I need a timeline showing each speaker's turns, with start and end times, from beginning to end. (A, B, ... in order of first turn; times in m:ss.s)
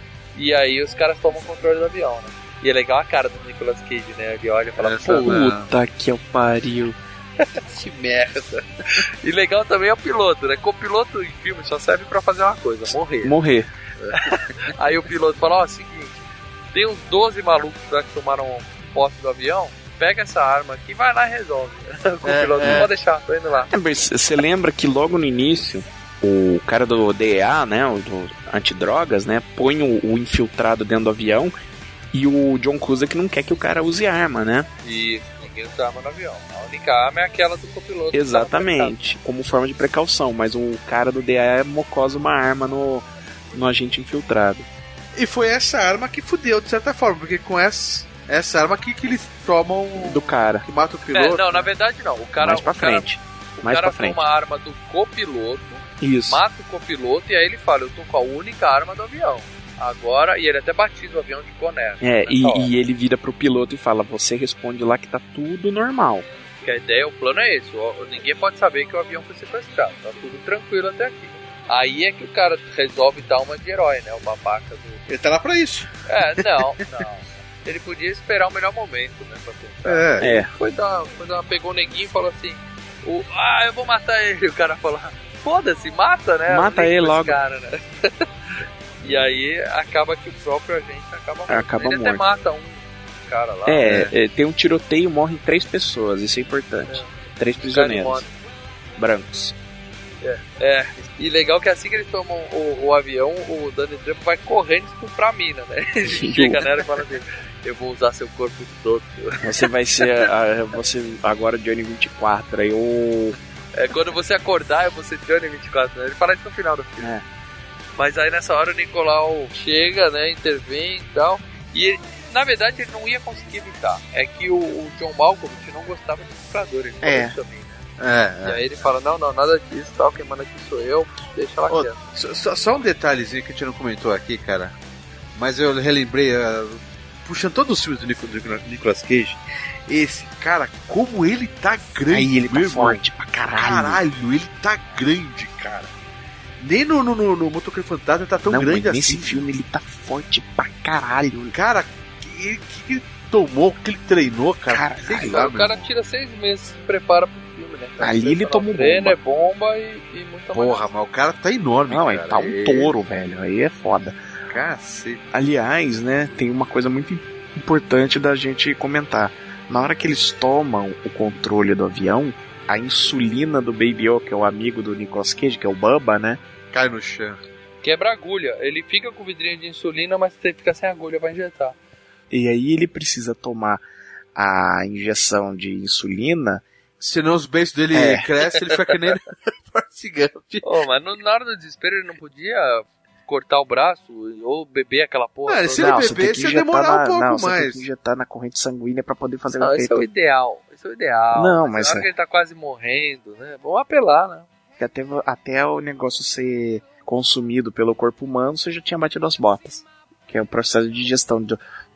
0:00.3-0:05.4 A
0:04.8-0:05.7 B
0:05.1-0:07.0 C
0:07.7-0:08.5 B
0:08.9-0:13.4 A
0:13.2-0:13.7 C
0:14.1-0:16.2 A
0:16.7-0:23.7 A
0:22.2-0:22.9 B
0:23.7-0:31.5 C
0:32.1-0:34.7 C
0:34.8-0:39.0 A
0:38.1-0:44.7 C
0:45.1-0:51.7 B
0:50.0-0:50.7 C
0:51.1-1:02.7 A
0:52.4-0:54.2 C
0:56.0-0:56.4 C
1:02.0-1:06.2 C
1:06.6-1:15.0 A
1:15.1-1:16.8 B
1:16.1-1:28.2 A
1:19.8-1:20.2 B
1:20.2-1:20.5 C
1:26.5-1:27.4 C
1:29.0-1:33.8 A
1:31.5-1:32.2 C
1:33.6-1:38.2 C
1:33.8-1:34.1 B
1:36.9-1:38.3 A
1:39.0-1:39.5 C
1:40.2-1:50.3 A
1:46.0-1:46.7 C
1:49.4-1:53.4 C
1:53.7-1:57.1 A
1:57.0-1:57.2 C
1:58.0-2:07.8 A
2:07.0-2:07.3 C
2:08.0-2:08.6 B
2:08.4-2:12.0 A
2:11.7-2:14.7 B
2:15.4-2:23.0 B
2:22.1-2:24.0 C
2:23.5-2:25.9 B
2:26.6-2:29.4 B
2:28.4-2:31.6 C
2:31.5-2:35.9 B
2:34.7-2:35.4 C
2:35.3-2:40.9 A
2:38.0-2:39.2 C
2:40.5-2:43.0 B
2:41.9-2:44.2 C
2:44.5-2:45.2 B
2:45.3-2:56.4 C
2:56.7-2:57.4 B
2:57.8-3:01.8 A
3:02.3-3:03.8 C
3:04.4-3:06.6 C
3:07.0-3:10.7 B
3:07.9-3:08.3 C
3:10.6-3:16.1 A
3:15.4-3:17.8 B
3:15.8-3:20.0 C
3:19.6-3:24.5 A
3:21.3-3:22.1 C
3:24.8-3:31.6 C